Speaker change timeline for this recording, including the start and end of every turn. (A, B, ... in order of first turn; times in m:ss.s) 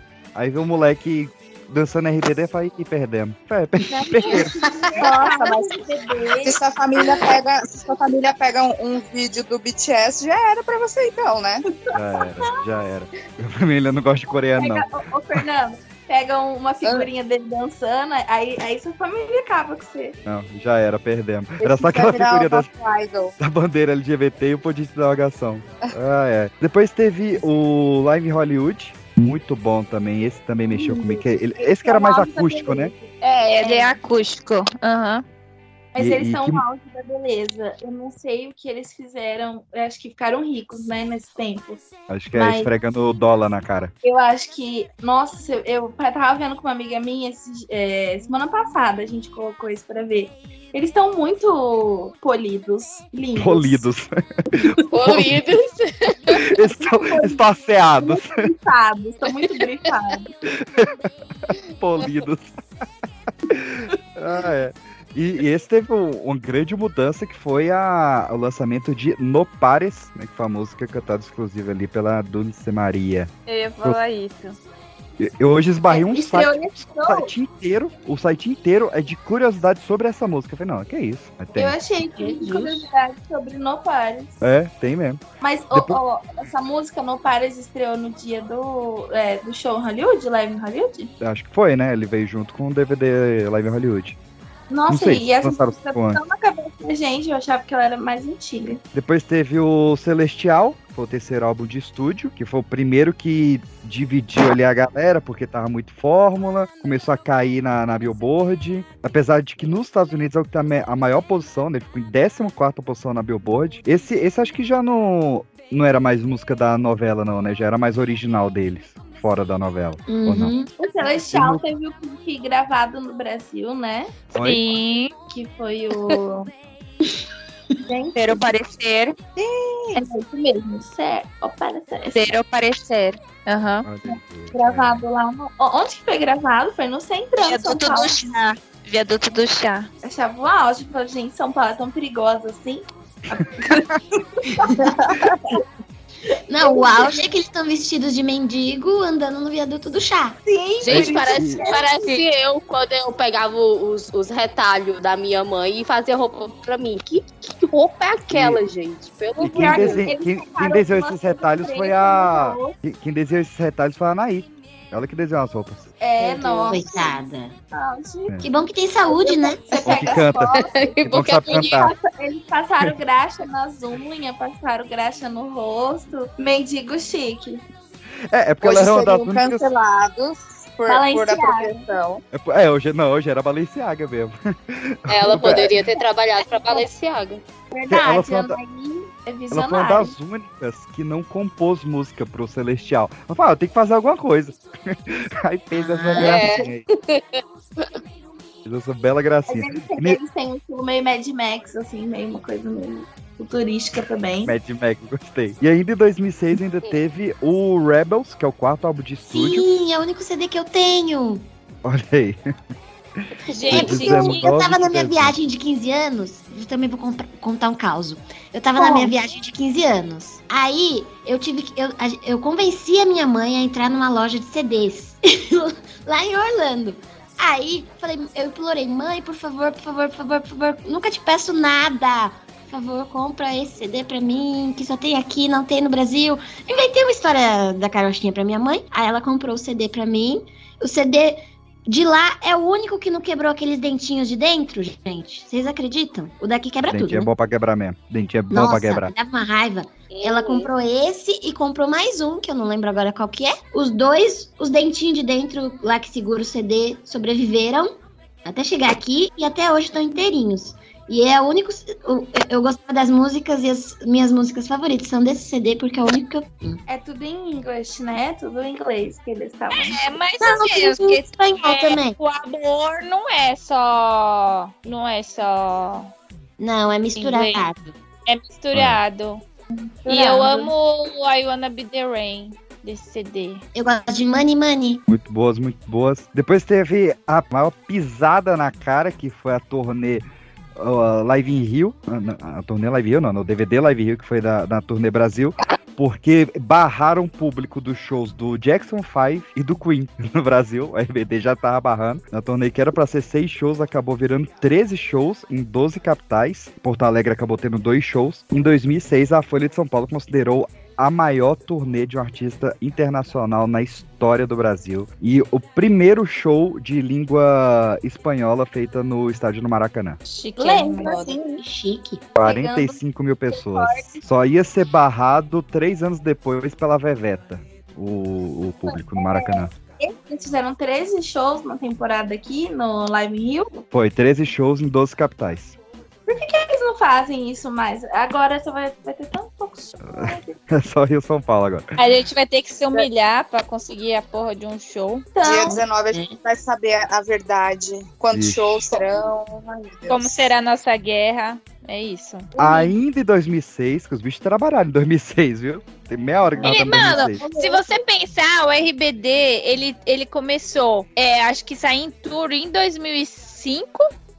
0:00.4-0:04.6 A
0:03.9-0:06.6 B
0:05.0-0:05.8 C
0:06.4-0:11.6 C
0:11.9-0:12.5 B
0:11.9-0:14.9 A
0:14.6-0:20.2 B
0:20.2-0:22.7 A
0:21.6-0:23.3 C
0:23.4-0:32.9 A
0:30.7-0:34.0 B
0:33.2-0:35.2 D
0:35.9-0:41.8 B
0:36.0-0:36.6 A
0:42.1-0:43.9 A
0:42.3-0:42.7 B
0:44.0-0:53.9 B
0:53.4-0:55.4 A
0:54.9-0:56.4 E
0:56.3-0:58.4 A
0:56.9-0:57.4 B
0:58.0-1:00.3 B
0:59.4-0:59.9 E
1:00.7-1:01.1 A
1:01.8-1:02.6 A
1:03.5-1:13.3 A
1:13.5-1:14.6 D
1:15.2-1:21.8 A
1:15.9-1:17.3 B
1:21.6-1:24.4 B
1:22.2-1:22.8 F
1:24.4-1:26.0 A
1:25.4-1:31.1 B
1:31.2-1:34.2 A
1:34.7-1:38.8 B
1:34.9-1:36.2 A
1:38.9-2:00.6 A
2:00.1-2:00.7 F
2:00.8-2:04.2 B
2:01.3-2:01.6 A
2:04.3-2:05.1 D
2:04.4-2:04.6 A
2:05.3-2:06.5 B
2:07.9-2:08.4 B
2:08.2-2:09.2 D
2:09.4-2:12.3 B
2:12.1-2:13.9 D
2:13.8-2:15.0 A
2:14.1-2:18.2 B
2:17.4-2:19.9 D
2:20.0-2:25.6 B
2:23.4-2:24.0 A
2:26.5-2:30.4 F
2:26.6-2:27.2 B
2:30.4-2:31.9 B
2:30.8-2:40.1 E
2:30.9-2:31.7 A
2:38.3-2:38.6 A
2:39.4-2:45.9 A
2:39.4-2:42.8 B
2:46.0-2:47.2 B
2:46.2-2:47.6 F
2:47.7-2:48.4 B
2:48.4-2:50.1 F
2:49.1-2:57.6 B
2:49.8-2:51.9 A
2:50.5-2:51.9 E
2:58.3-2:59.6 A
2:58.6-3:02.2 C
3:00.9-3:01.9 B
3:02.3-3:05.8 A
3:05.1-3:07.4 E
3:05.4-3:06.9 B
3:07.7-3:10.1 B
3:07.9-3:08.6 A
3:09.5-3:16.8 A
3:15.8-3:16.4 F
3:16.2-3:18.0 E
3:18.6-3:20.2 A
3:19.5-3:24.5 B
3:24.4-3:29.7 A
3:29.3-3:31.5 F
3:31.8-3:32.5 A
3:33.5-3:34.5 D
3:33.7-3:34.0 E
3:33.7-3:35.4 A
3:33.8-4:07.3 F
3:38.8-3:39.1 B
4:06.9-4:09.1 A
4:08.5-4:26.8 F
4:10.1-4:10.7 E
4:26.9-4:30.0 B
4:29.7-4:36.1 D
4:30.4-4:32.2 F
4:36.6-4:37.9 F
4:37.2-4:37.6 D
4:38.3-4:39.4 D
4:38.7-4:39.0 A
4:39.7-4:40.7 B
4:40.1-4:43.6 D
4:43.7-4:45.0 F
4:45.1-4:50.2 A
4:50.8-5:20.2 A
5:20.3-5:21.2 D
5:20.6-5:21.6 B
5:21.1-5:22.4 F
5:22.4-5:29.7 A
5:22.4-5:23.0 B
5:23.5-5:24.2 B
5:28.9-5:33.8 B
5:33.9-5:35.8 A
5:36.3-5:40.6 B
5:40.0-5:41.9 A
5:42.0-5:45.3 D
5:45.3-5:45.8 B
5:45.4-5:50.5 C
5:48.3-5:48.9 A
5:50.1-5:52.5 D
5:52.6-5:52.9 B
5:52.6-5:57.4 A
5:56.6-6:04.1 D
5:56.7-5:57.8 B